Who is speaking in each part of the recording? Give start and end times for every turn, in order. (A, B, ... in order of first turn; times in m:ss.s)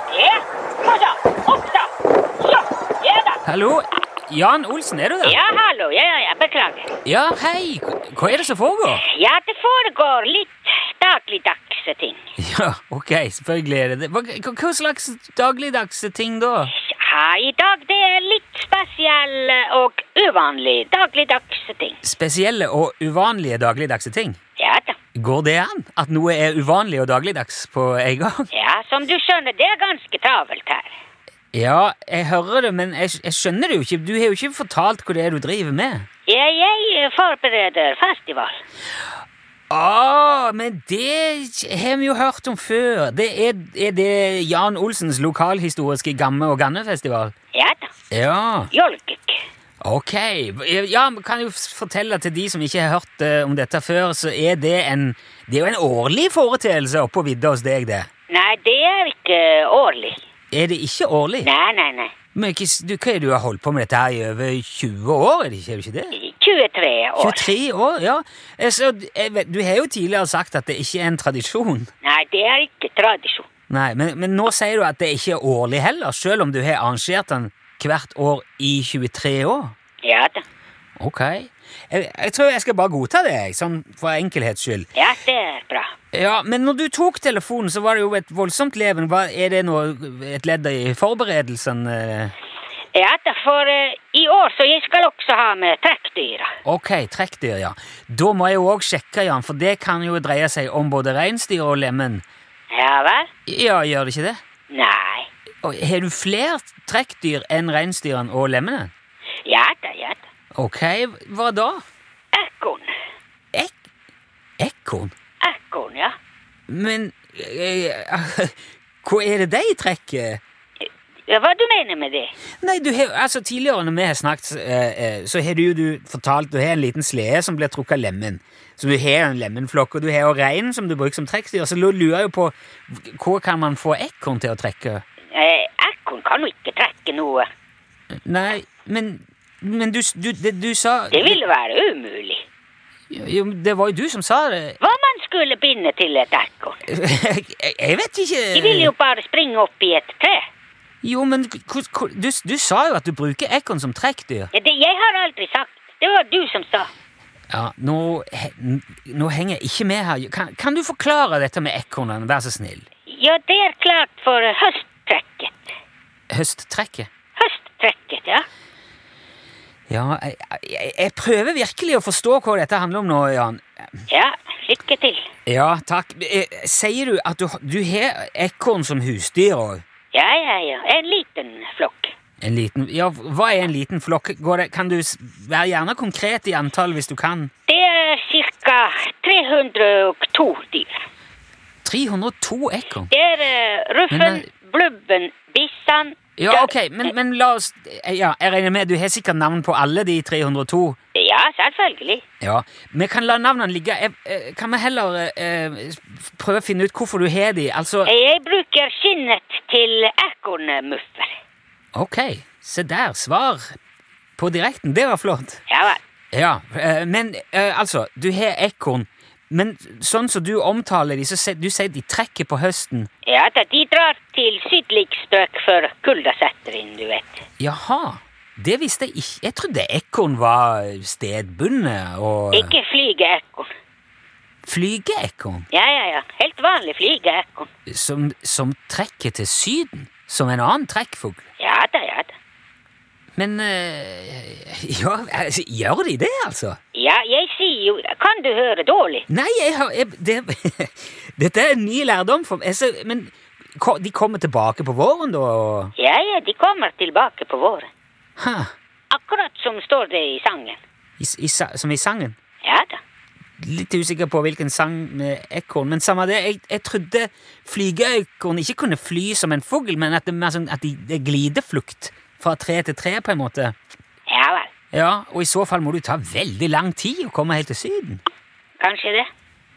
0:00.1-0:01.9 A
0:02.4-0:03.4 A
0:03.4-0:05.4 B
0:05.2-0:06.9 A
0:07.0-0:09.0 B
0:08.9-0:12.2 A
0:12.4-0:16.7 B
0:16.7-0:22.0 A
0:22.0-0:24.4 B
0:24.6-0:25.0 A
0:25.2-0:28.5 B
0:28.5-0:31.0 A
0:31.5-0:36.0 B
0:36.3-0:38.6 A
0:39.7-0:47.3 B
0:47.5-0:47.9 A
0:48.1-0:48.7 B
0:48.7-0:49.4 A
0:49.8-0:58.1 B
0:58.3-1:00.2 A
1:00.5-1:01.5 B
1:01.4-1:02.1 A
1:02.3-1:06.1 B
1:06.1-1:07.5 A
1:07.2-1:11.9 B
1:12.0-1:13.5 A
1:13.7-1:19.7 B
1:20.0-1:20.4 A
1:21.0-1:24.9 B
1:24.9-1:25.9 A
1:26.1-1:32.3 B
1:32.9-1:36.5 A
1:36.6-1:42.2 B
1:42.7-1:43.3 A
1:43.5-1:44.4 B
1:44.7-1:45.3 A
1:45.6-1:48.9 B
1:49.4-1:50.2 A
1:50.5-1:51.8 B
1:52.3-1:52.9 A
1:54.6-1:55.1 B
1:55.4-1:56.1 A
1:56.7-2:00.4 B
2:00.8-2:02.3 A
2:02.6-2:15.0 B
2:15.3-2:17.5 A
2:18.2-2:21.4 B
2:21.1-2:22.4 A
2:23.1-2:24.8 B
2:24.8-2:26.8 A
2:26.9-2:28.9 B
2:28.5-2:30.4 A
2:31.0-2:34.5 B
2:34.5-2:36.9 A
2:37.5-2:42.8 B
2:43.1-2:45.7 A
2:46.3-2:47.1 B
2:47.4-2:48.4 A
2:49.9-2:54.0 B
2:54.1-2:55.2 A
2:55.4-2:59.8 B
3:00.1-3:02.1 A
3:02.4-3:07.5 B
3:07.7-3:11.0 A
3:11.8-3:13.1 B
3:13.1-3:16.7 A
3:14.1-3:14.4 B
3:16.4-3:21.0 B
3:21.1-3:22.2 A
3:22.4-3:28.1 B
3:28.0-3:31.3 A
3:31.9-3:33.8 B
3:34.4-3:35.6 B
3:35.7-3:36.0 A
3:36.3-3:43.1 B
3:43.2-3:47.4 A
3:47.6-3:52.7 B
3:52.5-3:53.7 A
3:54.6-3:55.7 B
3:55.7-3:57.7 A
3:57.9-4:01.4 B
4:01.6-4:02.3 A
4:03.4-4:06.8 B
4:06.9-4:09.2 A
4:09.3-4:15.9 B
4:16.0-4:17.9 A
4:18.4-4:18.7 B
4:19.1-4:20.8 A
4:21.2-4:22.4 B
4:22.6-4:23.0 A
4:23.6-4:33.7 B
4:34.3-4:34.7 A
4:34.9-4:38.2 B
4:38.8-4:39.3 A